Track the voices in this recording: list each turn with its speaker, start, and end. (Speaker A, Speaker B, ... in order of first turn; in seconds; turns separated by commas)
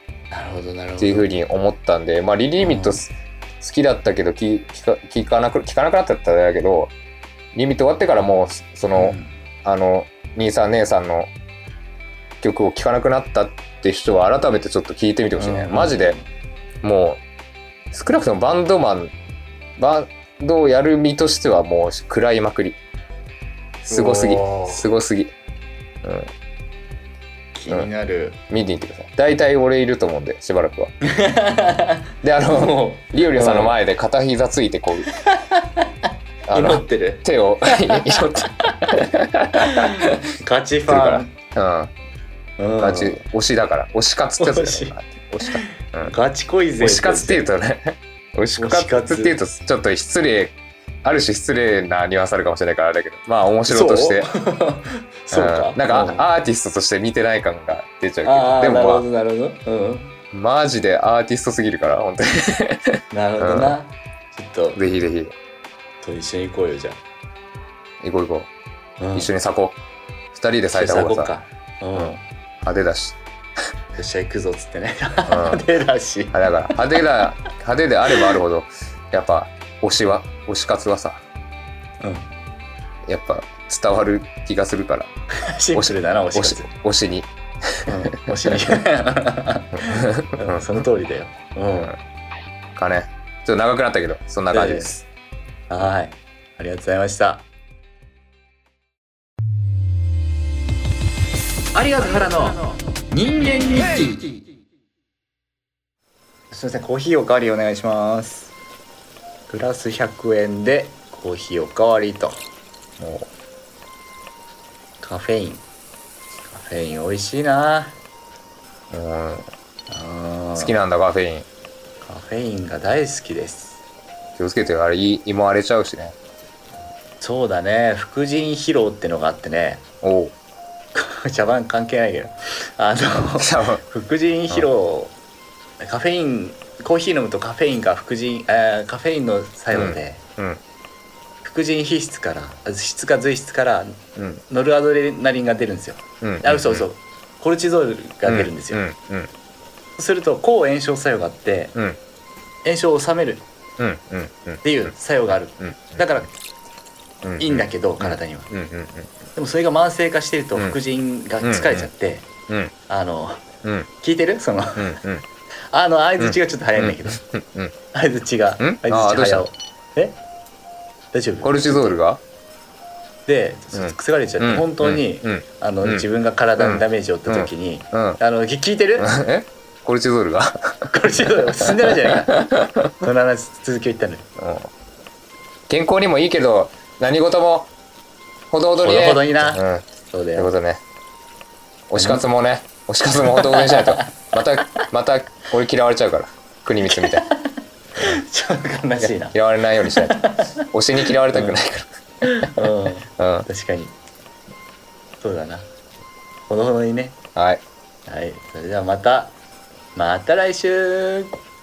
Speaker A: 0.3-1.3, Speaker B: 1.0-6.9, Speaker A: 2.6-3.0, Speaker B: 7.5-11.3, Speaker A: 8.9-9.3, Speaker B: 12.4-16.2, Speaker A: 15.4-16.2, Speaker B: 16.8-17.2, Speaker B: 17.9-19.1, Speaker B: 19.8-22.8, Speaker B: 23.9-25.3, Speaker A: 23.9-24.9, Speaker B: 26.0-26.3, Speaker A: 27.5-28.4, Speaker B: 28.5-30.9, Speaker A: 31.0-33.8, Speaker B: 32.2-35.1, Speaker A: 35.1-41.3, Speaker B: 36.5-40.2, Speaker B: 40.9-41.9, Speaker A: 42.6-43.2, Speaker B: 42.8-46.1, Speaker A: 44.4-47.5, Speaker B: 46.8-54.3, Speaker A: 48.6-49.4, Speaker A: 53.7-56.3, Speaker B: 55.3-59.0, Speaker A: 58.2-60.2, Speaker B: 60.3-63.8, Speaker A: 63.1-64.8, Speaker B: 64.7-65.3, Speaker A: 66.0-67.0, Speaker B: 68.0-68.5, Speaker A: 69.0-69.3, Speaker B: 69.1-69.8, Speaker B: 70.3-71.3, Speaker A: 70.7-72.2, Speaker B: 71.9-73.2, Speaker A: 74.0-76.5, Speaker B: 75.3-75.6, Speaker B: 76.3-81.2, Speaker A: 82.0-82.3, Speaker B: 83.1-85.1, Speaker A: 85.3-86.7, Speaker B: 85.7-88.6, Speaker A: 87.8-91.9, Speaker B: 89.8-90.8, Speaker B: 92.8-95.0, Speaker A: 94.5-95.0, Speaker A: 95.7-97.4, Speaker A: 101.7-104.2, Speaker A: 106.5-108.5, Speaker A: 109.5-112.4, Speaker B: 113.0-113.3, Speaker A: 115.0-115.6, Speaker A: 116.5-118.0, Speaker B: 118.9-119.5, Speaker A: 119.9-120.7, Speaker B: 120.6-121.5, Speaker A: 122.0-123.8, Speaker B: 124.4-126.2, Speaker A: 127.2-129.8, Speaker B: 130.0-130.3, Speaker A: 130.9-135.1, Speaker B: 133.4-133.8, Speaker A: 135.8-140.2, Speaker B: 139.7-140.6, Speaker A: 141.4-148.8, Speaker B: 146.2-146.9, Speaker B: 148.2-149.3, Speaker A: 150.0-151.8, Speaker A: 152.6-153.4, Speaker B: 153.8-154.9, Speaker A: 154.6-156.3, Speaker B: 155.6-156.1, Speaker B: 157.2-159.1, Speaker A: 157.4-158.5, Speaker A: 159.3-162.3, Speaker B: 161.4-161.9, Speaker A: 162.9-163.4, Speaker B: 163.6-163.9, Speaker A: 164.0-165.0, Speaker B: 164.8-165.2, Speaker A: 165.7-167.2, Speaker B: 166.2-167.7, Speaker A: 167.9-170.2, Speaker B: 168.6-169.5, Speaker A: 171.1-172.0, Speaker B: 171.4-172.2, Speaker A: 173.3-179.1, Speaker B: 173.7-176.1, Speaker B: 176.6-178.2, Speaker B: 179.0-183.1, Speaker A: 180.9-182.4, Speaker A: 183.0-184.2, Speaker B: 184.4-184.7, Speaker B: 185.7-187.7, Speaker B: 188.5-190.8, Speaker A: 188.8-190.5, Speaker B: 191.9-197.2, Speaker A: 192.0-192.2, Speaker A: 193.2-194.1, Speaker A: 196.9-199.4, Speaker B: 199.0-203.5, Speaker A: 199.9-200.7, Speaker A: 201.3-201.6, Speaker A: 202.2-203.9, Speaker A: 205.2-205.7, Speaker A: 206.5-207.2, Speaker B: 207.3-207.6, Speaker A: 208.1-209.3, Speaker A: 209.9-211.3